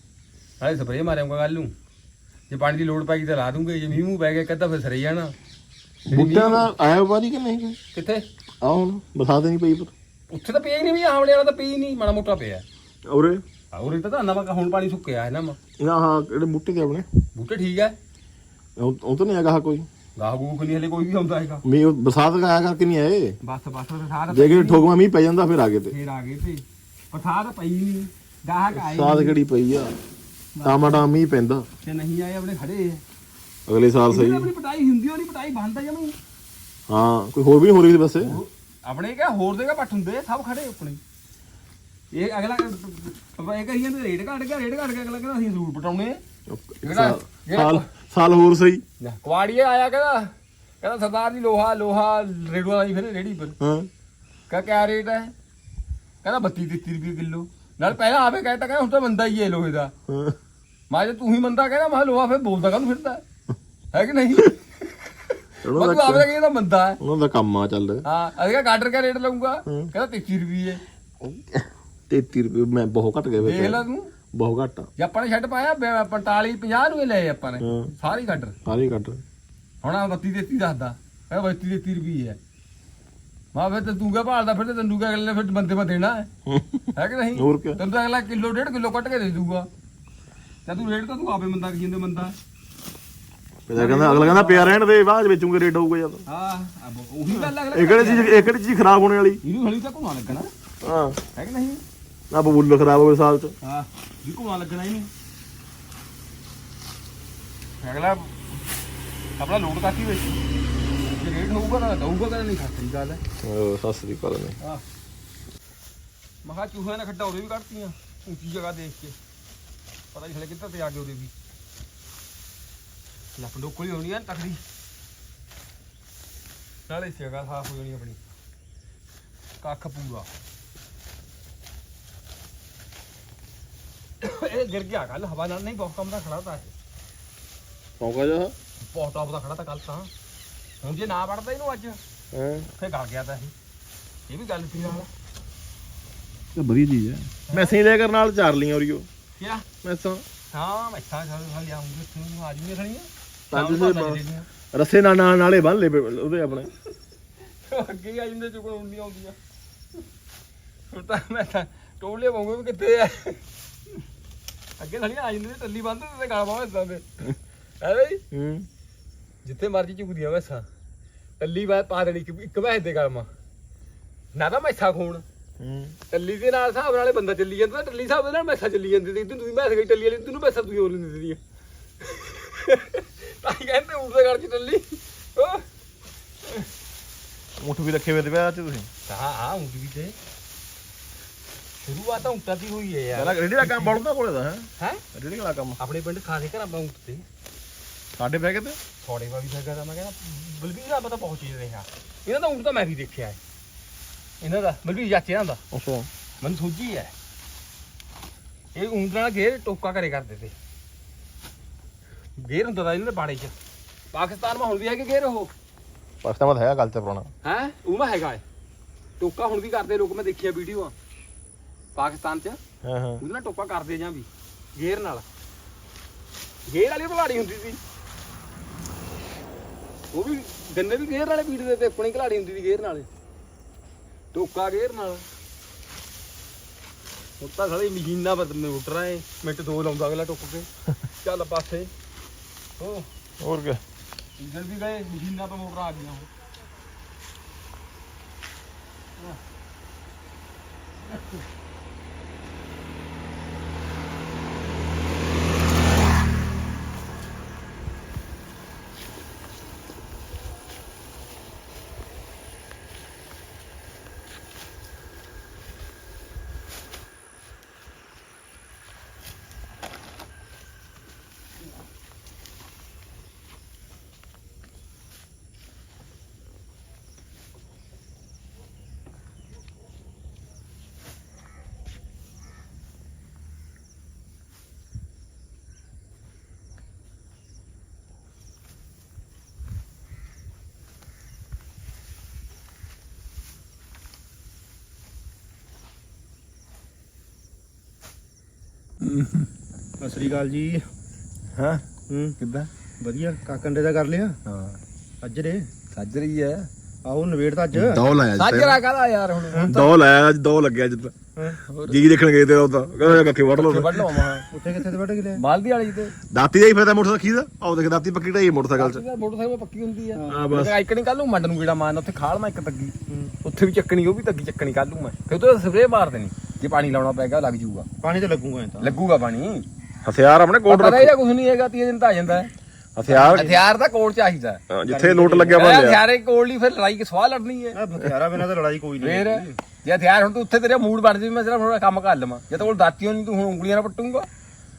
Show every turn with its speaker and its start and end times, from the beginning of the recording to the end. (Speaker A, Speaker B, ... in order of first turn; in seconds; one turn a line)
Speaker A: 0.6-1.7
Speaker A: 2.5-5.3
Speaker B: 6.1-7.8
Speaker A: 6.1-6.7
Speaker A: 7.9-8.2
Speaker B: 8.6-9.9
Speaker A: 10.3-12.6
Speaker B: 13.1-13.4
Speaker A: 13.7-15.6
Speaker B: 15.8-17.1
Speaker A: 17.3-17.9
Speaker B: 18.8-19.9
Speaker A: 20.2-21.6
Speaker B: 21.6-23.4
Speaker A: 23.4-24.9
Speaker B: 24.3-25.9
Speaker A: 25.9-29.4
Speaker B: 28.7-29.9
Speaker A: 30.5-31.0
Speaker B: 30.6-31.6
Speaker A: 31.8-33.0
Speaker B: 33.7-34.5
Speaker A: 34.1-36.2
Speaker B: 36.9-38.4
Speaker A: 38.2-41.0
Speaker A: 42.1-46.2
Speaker B: 46.5-48.8
Speaker A: 46.8-47.9
Speaker A: 49.0-53.5
Speaker B: 53.6-53.9
Speaker A: 54.5-55.3
Speaker A: 56.2-59.9
Speaker B: 60.1-60.4
Speaker A: 60.9-63.2
Speaker A: 63.9-67.0
Speaker B: 65.6-66.3
Speaker B: 67.0-68.0
Speaker A: 68.0-70.8
Speaker B: 71.2-74.9
Speaker A: 73.4-74.1
Speaker A: 75.0-78.5
Speaker B: 77.6-77.9
Speaker B: 78.6-79.2
Speaker A: 79.8-82.4
Speaker A: 83.5-86.3
Speaker B: 86.5-87.8
Speaker A: 87.0-89.7
Speaker A: 90.7-92.3
Speaker B: 93.7-96.2
Speaker A: 93.7-94.8
Speaker A: 96.2-98.3
Speaker B: 97.3-99.4
Speaker A: 99.4-100.5
Speaker B: 100.8-101.2
Speaker A: 101.3-101.8
Speaker B: 102.3-103.5
Speaker A: 103.6-105.1
Speaker A: 107.8-108.3
Speaker A: 109.4-110.4
Speaker A: 111.1-113.2
Speaker B: 113.4-114.6
Speaker A: 116.4-119.2
Speaker A: 120.1-121.3
Speaker A: 123.4-124.6
Speaker A: 126.9-128.2
Speaker A: 129.6-130.3
Speaker A: 134.2-136.7
Speaker B: 138.0-138.5
Speaker A: 138.9-140.1
Speaker A: 140.8-142.0
Speaker B: 142.3-142.7
Speaker A: 142.8-143.5
Speaker A: 144.3-145.1
Speaker B: 146.5-149.1
Speaker A: 147.5-147.7
Speaker A: 149.4-149.7
Speaker B: 149.8-150.2
Speaker A: 150.5-154.5
Speaker B: 153.5-154.2
Speaker B: 154.7-156.7
Speaker A: 157.6-159.3
Speaker A: 160.9-163.4
Speaker A: 164.8-167.3
Speaker A: 167.8-168.2
Speaker B: 168.3-168.7
Speaker A: 169.4-170.7
Speaker A: 171.4-173.3
Speaker A: 174.3-175.2
Speaker B: 175.6-175.9
Speaker A: 176.1-181.4
Speaker A: 182.0-185.6
Speaker B: 187.6-188.9
Speaker A: 189.1-190.2
Speaker A: 191.8-194.0
Speaker B: 193.1-195.8
Speaker A: 195.8-197.2
Speaker B: 198.2-198.8
Speaker A: 199.0-203.4
Speaker A: 204.4-205.6
Speaker B: 205.7-206.1
Speaker A: 206.4-207.1
Speaker A: 208.7-210.5
Speaker A: 212.4-213.5
Speaker A: 214.1-215.5
Speaker B: 216.2-217.3
Speaker A: 217.4-218.4
Speaker A: 219.2-220.9
Speaker A: 221.9-222.6
Speaker B: 222.8-223.2
Speaker A: 223.2-225.2
Speaker A: 226.7-227.8
Speaker A: 230.1-233.1
Speaker A: 234.3-235.2
Speaker A: 237.4-240.7
Speaker A: 241.2-241.9
Speaker A: 242.8-243.1
Speaker B: 243.4-243.8
Speaker A: 244.4-246.3
Speaker A: 299.0-299.5
Speaker C: 300.0-300.8
Speaker C: 302.1-302.4
Speaker A: 302.4-302.7
Speaker C: 303.0-304.4
Speaker C: 305.2-305.6
Speaker A: 305.9-306.7
Speaker C: 307.0-308.0
Speaker B: 307.7-308.8
Speaker A: 308.4-309.9
Speaker B: 309.6-311.1
Speaker A: 311.7-312.0
Speaker B: 311.8-314.3
Speaker A: 313.1-314.5
Speaker C: 314.5-315.4
Speaker A: 315.4-316.1
Speaker B: 316.3-319.0
Speaker A: 318.8-327.9
Speaker C: 320.1-320.4
Speaker B: 320.3-320.8
Speaker C: 323.1-323.3
Speaker C: 328.0-329.0
Speaker A: 328.8-329.6
Speaker B: 330.0-331.1
Speaker A: 330.7-332.5
Speaker B: 332.9-333.5
Speaker C: 333.1-333.6
Speaker A: 333.1-334.6
Speaker B: 334.7-336.0
Speaker C: 334.9-335.6
Speaker A: 335.5-337.8
Speaker C: 337.7-339.5
Speaker A: 339.0-344.3